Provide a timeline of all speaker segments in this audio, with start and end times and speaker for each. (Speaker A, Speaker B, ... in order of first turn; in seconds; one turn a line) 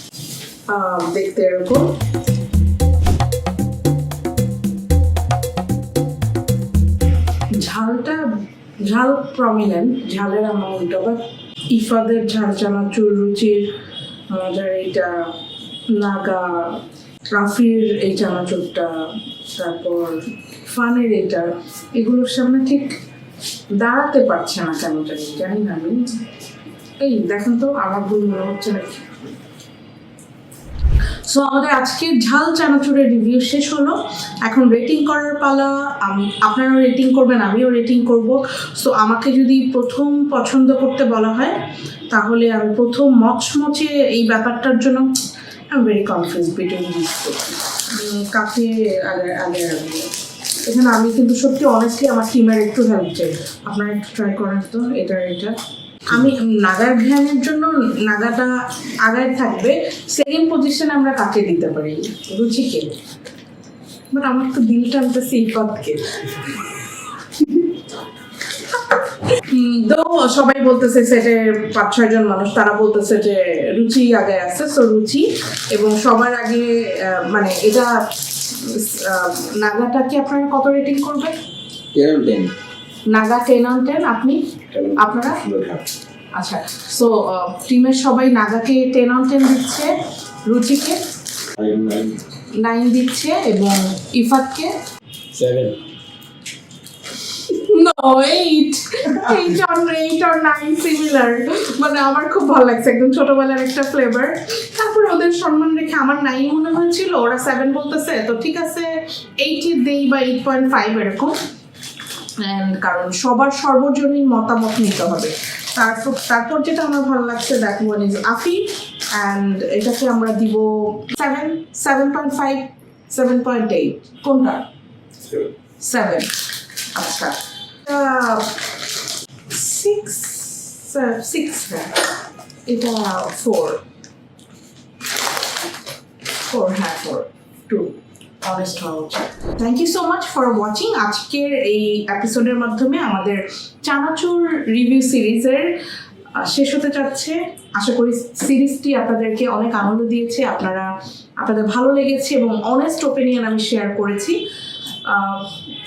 Speaker A: 0.7-1.9
Speaker A: 7.5-8.2
Speaker A: 8.8-13.7
Speaker A: 14.3-15.3
Speaker A: 15.9-22.9
Speaker A: 23.8-26.0
Speaker A: 27.0-29.1
Speaker A: 31.2-45.0
Speaker A: 45.7-50.1
Speaker A: 50.6-55.5
Speaker A: 56.1-58.5
Speaker A: 59.0-62.9
Speaker A: 64.1-67.8
Speaker A: 68.5-81.3
Speaker B: 81.9-82.5
Speaker A: 83.1-85.4
Speaker B: 84.7-85.8
Speaker A: 86.3-89.9
Speaker A: 90.5-91.0
Speaker B: 91.6-92.2
Speaker A: 92.6-94.8
Speaker B: 95.3-95.8
Speaker A: 97.2-111.4
Speaker A: 112.4-124.7
Speaker A: 125.2-126.3
Speaker A: 126.9-128.7
Speaker A: 129.5-132.1
Speaker A: 132.7-133.8
Speaker A: 136.5-145.8
Speaker A: 146.3-150.9
Speaker A: 151.4-154.4
Speaker A: 155.0-155.5